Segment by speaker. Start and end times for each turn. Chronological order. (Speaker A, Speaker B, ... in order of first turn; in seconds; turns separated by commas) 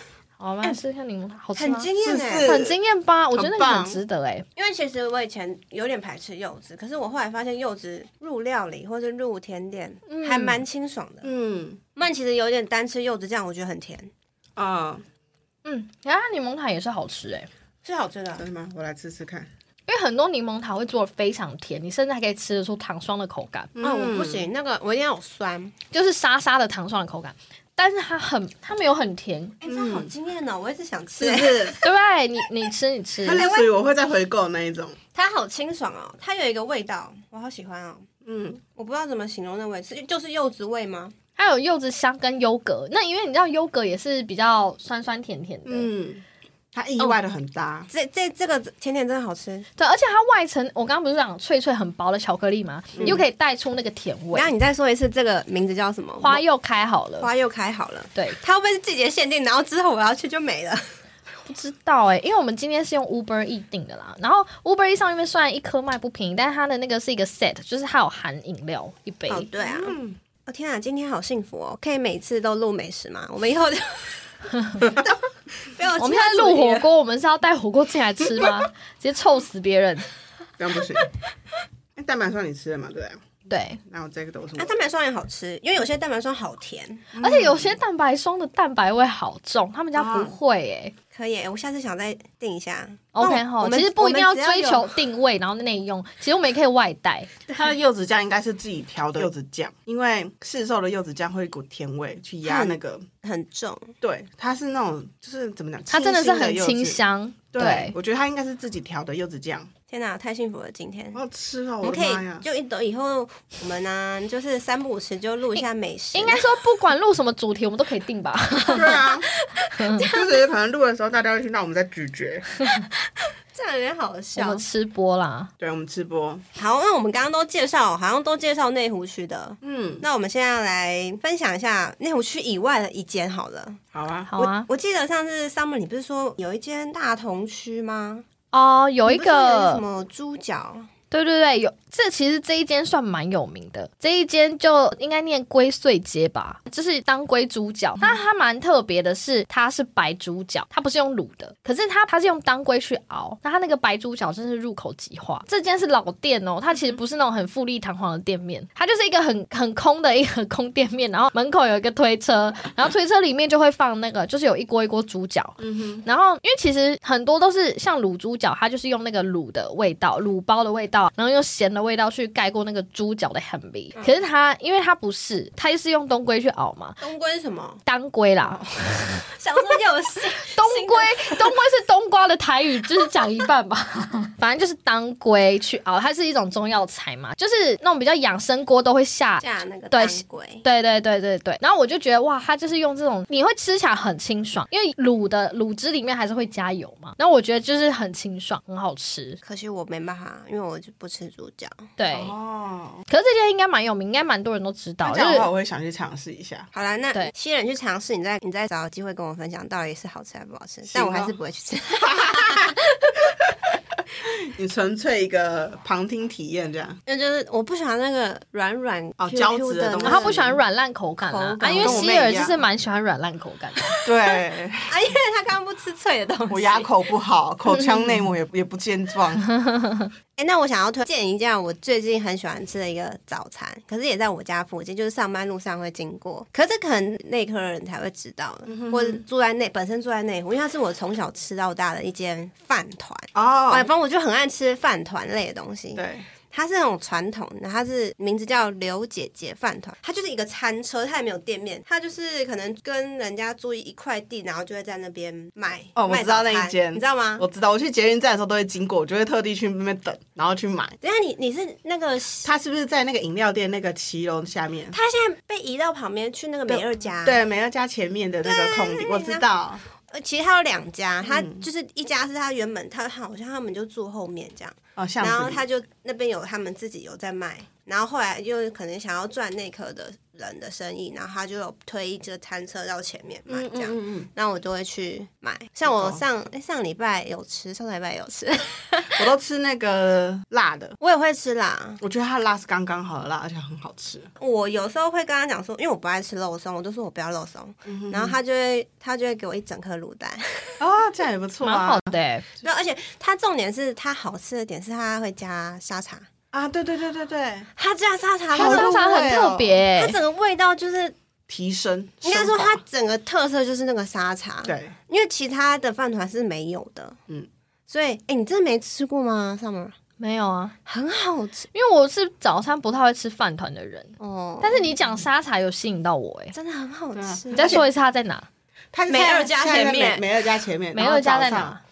Speaker A: 0.4-1.9, Speaker B: 1.6-2.5, Speaker C: 2.0-2.8, Speaker A: 2.4-4.5, Speaker C: 3.3-4.0, Speaker B: 4.5-11.3, Speaker A: 10.1-10.6, Speaker C: 11.2-11.8, Speaker B: 11.9-14.1, Speaker C: 14.6-15.0, Speaker A: 15.6-17.5, Speaker B: 17.8-18.4, Speaker C: 18.4-19.5, Speaker A: 19.9-23.7, Speaker C: 23.8-24.5, Speaker B: 23.8-25.7, Speaker A: 25.9-29.6, Speaker B: 29.6-31.9, Speaker C: 29.6-30.1, Speaker C: 31.2-31.8, Speaker A: 31.8-33.4, Speaker C: 33.2-35.0, Speaker B: 33.3-33.7, Speaker B: 35.1-38.1, Speaker C: 38.2-38.6, Speaker B: 38.8-41.1, Speaker A: 41.4-45.9, Speaker C: 45.6-47.9, Speaker B: 47.9-49.7, Speaker A: 49.8-54.5, Speaker C: 53.0-53.2, Speaker B: 53.0-53.2, Speaker B: 54.3-56.4, Speaker A: 56.2-57.3, Speaker B: 57.2-60.8, Speaker A: 61.5-69.5, Speaker B: 69.3-74.3, Speaker C: 69.6-70.2, Speaker B: 75.0-76.9, Speaker A: 76.0-80.0, Speaker C: 80.6-81.2, Speaker C: 82.0-83.2, Speaker A: 83.5-83.8, Speaker C: 83.8-84.7, Speaker B: 84.6-87.1, Speaker C: 87.1-87.8, Speaker A: 87.2-90.9, Speaker C: 90.0-90.3, Speaker B: 91.1-95.0, Speaker A: 93.1-97.3, Speaker C: 97.5-103.1, Speaker B: 102.4-103.9, Speaker C: 104.0-107.0, Speaker A: 105.9-107.9, Speaker C: 107.5-109.7, Speaker B: 109.9-111.2, Speaker C: 111.1-112.4, Speaker B: 111.8-116.6, Speaker A: 116.1-119.0, Speaker B: 118.7-120.5, Speaker C: 118.7-119.3, Speaker A: 119.8-120.1, Speaker C: 120.0-122.7, Speaker B: 122.8-124.6, Speaker A: 124.3-125.5, Speaker C: 125.6-126.4, Speaker B: 126.5-133.8, Speaker C: 129.6-130.0, Speaker C: 133.9-134.3, Speaker A: 134.3-134.7, Speaker B: 134.3-138.2, Speaker A: 138.5-139.8, Speaker B: 139.1-140.9, Speaker A: 141.1-177.0, Speaker C: 165.6-166.1, Speaker B: 177.0-177.8, Speaker A: 177.8-179.2, Speaker B: 179.3-181.5, Speaker A: 180.5-199.4, Speaker B: 189.4-190.6, Speaker B: 199.4-201.9, Speaker A: 202.0-202.3, Speaker C: 202.1-203.0, Speaker A: 203.1-205.5, Speaker C: 205.0-206.7, Speaker B: 206.7-213.3, Speaker C: 210.9-211.3, Speaker C: 212.0-212.8, Speaker C: 213.3-213.6, Speaker C: 214.1-217.0, Speaker B: 217.1-220.4, Speaker C: 219.2-220.6, Speaker A: 220.0-224.0, Speaker B: 221.2-222.2, Speaker C: 221.7-222.6, Speaker C: 224.0-224.9, Speaker B: 224.9-226.9, Speaker C: 226.5-229.5, Speaker A: 229.5-230.1, Speaker B: 230.4-257.4, Speaker C: 238.7-239.2, Speaker C: 243.3-243.9, Speaker C: 245.9-246.2, Speaker C: 255.9-261.0, Speaker B: 261.0-262.5, Speaker C: 262.4-265.0, Speaker B: 264.9-267.4, Speaker C: 266.7-269.8, Speaker B: 268.4-269.5, Speaker B: 270.0-289.3, Speaker C: 271.2-271.6, Speaker C: 274.9-275.6, Speaker C: 283.5-284.3, Speaker C: 285.9-286.2, Speaker C: 289.1-291.0, Speaker B: 291.0-292.0, Speaker C: 292.0-294.3, Speaker B: 294.4-300.8, Speaker C: 297.9-298.4, Speaker C: 300.8-302.1, Speaker A: 301.6-302.4, Speaker B: 302.6-306.3, Speaker C: 306.5-307.7, Speaker B: 307.8-309.0, Speaker C: 308.5-309.8, Speaker A: 308.5-310.2, Speaker B: 309.9-311.1, Speaker C: 311.5-312.8, Speaker B: 312.2-317.2, Speaker C: 314.6-314.9, Speaker B: 317.9-319.9, Speaker A: 320.2-320.8, Speaker B: 320.9-321.7, Speaker A: 321.7-326.5, Speaker B: 324.2-324.9, Speaker B: 326.5-327.8, Speaker C: 327.1-327.9, Speaker A: 327.5-328.5, Speaker C: 328.9-331.8, Speaker B: 329.1-330.3, Speaker A: 330.9-331.8